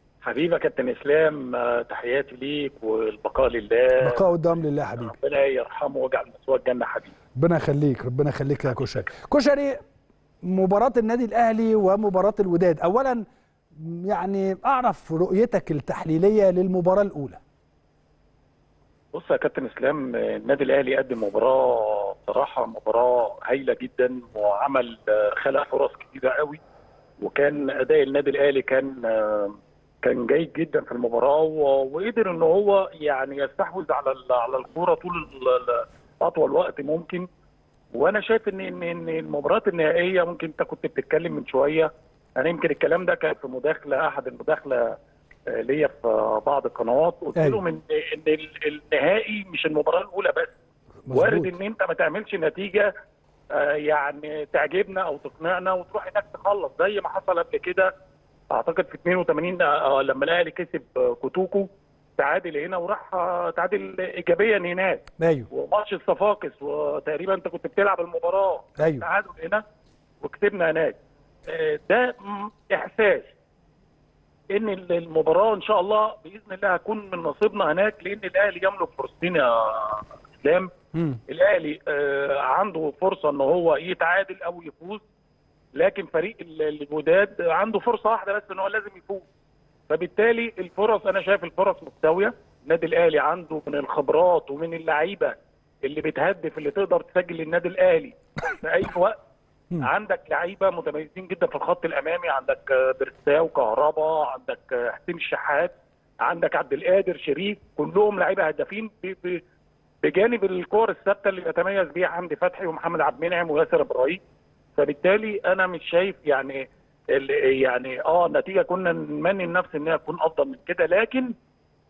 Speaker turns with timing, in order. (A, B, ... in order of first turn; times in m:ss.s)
0:00.2-0:04.2 A
0:04.0-0:05.1 B
0:05.0-0:07.1 A
0:07.4-0:09.8 B
0:10.4-0:13.2 B
0:13.7-0:17.4 B
0:19.1-0:26.6 A
0:27.2-0:37.2 A
0:37.9-0:44.9 A
0:45.5-0:50.5 A
0:51.1-0:51.5 B
0:51.1-0:52.9 A
0:53.5-0:57.9 A
0:58.5-1:09.6 A
1:05.2-1:05.5 B
1:08.8-1:09.0 B
1:10.2-1:13.3 A
1:14.5-1:20.7 A
1:20.9-1:21.2 B
1:21.3-1:25.0 A
1:25.8-1:29.3 A
1:29.9-1:39.2 A
1:39.8-1:49.4 A
1:50.0-1:54.2 A
1:54.8-2:01.3 A